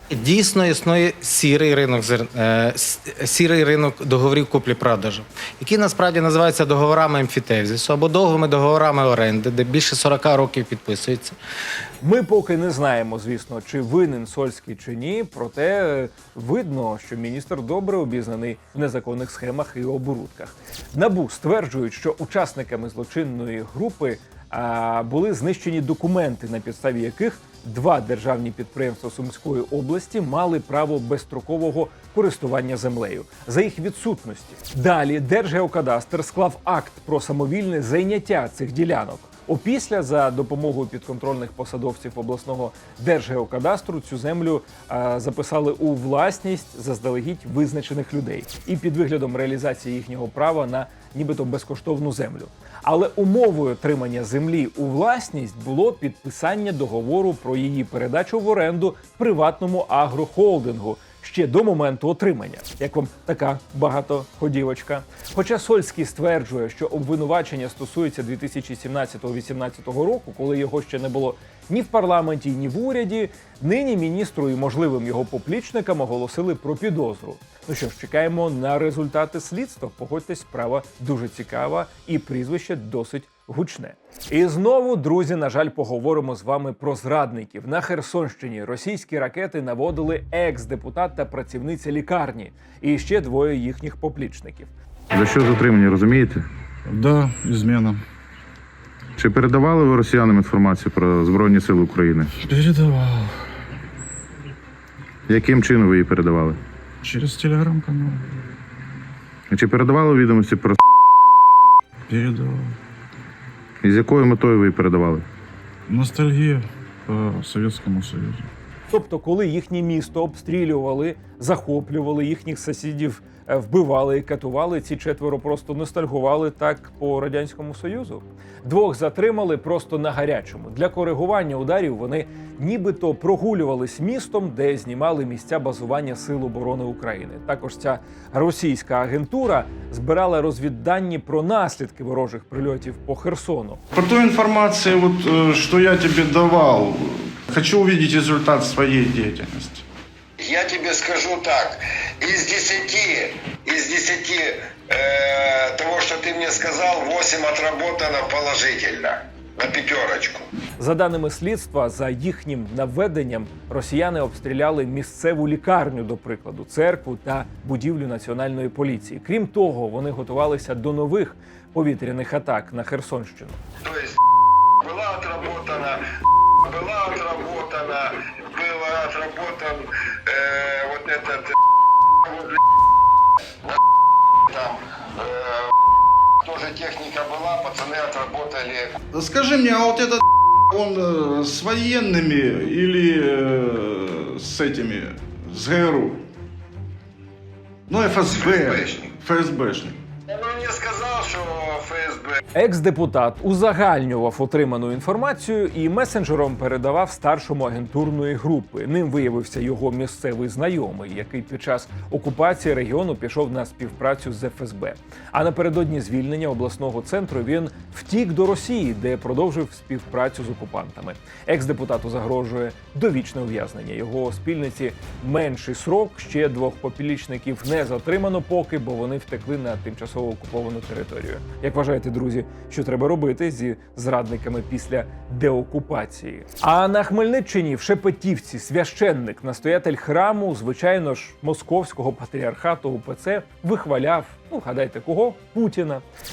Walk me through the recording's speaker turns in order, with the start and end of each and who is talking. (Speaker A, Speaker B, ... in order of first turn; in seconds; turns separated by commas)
Speaker A: 0.1-11.4, Speaker B: 12.0-94.7, Speaker C: 95.1-96.4, Speaker D: 96.9-98.0, Speaker C: 99.2-102.3, Speaker D: 102.4-103.4, Speaker C: 105.3-106.6, Speaker D: 107.0-108.2, Speaker C: 109.5-110.8, Speaker D: 112.1-112.8, Speaker C: 113.8-115.2, Speaker D: 115.9-118.5, Speaker B: 118.9-143.8, Speaker E: 143.9-149.8, Speaker F: 150.4-160.5, Speaker B: 160.8-173.6, Speaker F: 173.8-174.2, Speaker F: 174.8-176.0, Speaker F: 176.6-181.6, Speaker F: 182.2-182.6, Speaker F: 184.5-185.7, Speaker F: 186.4-188.9, Speaker E: 189.1-196.2, Speaker E: 197.9-200.0, Speaker F: 198.5-199.0, Speaker F: 200.3-202.4, Speaker B: 202.6-246.0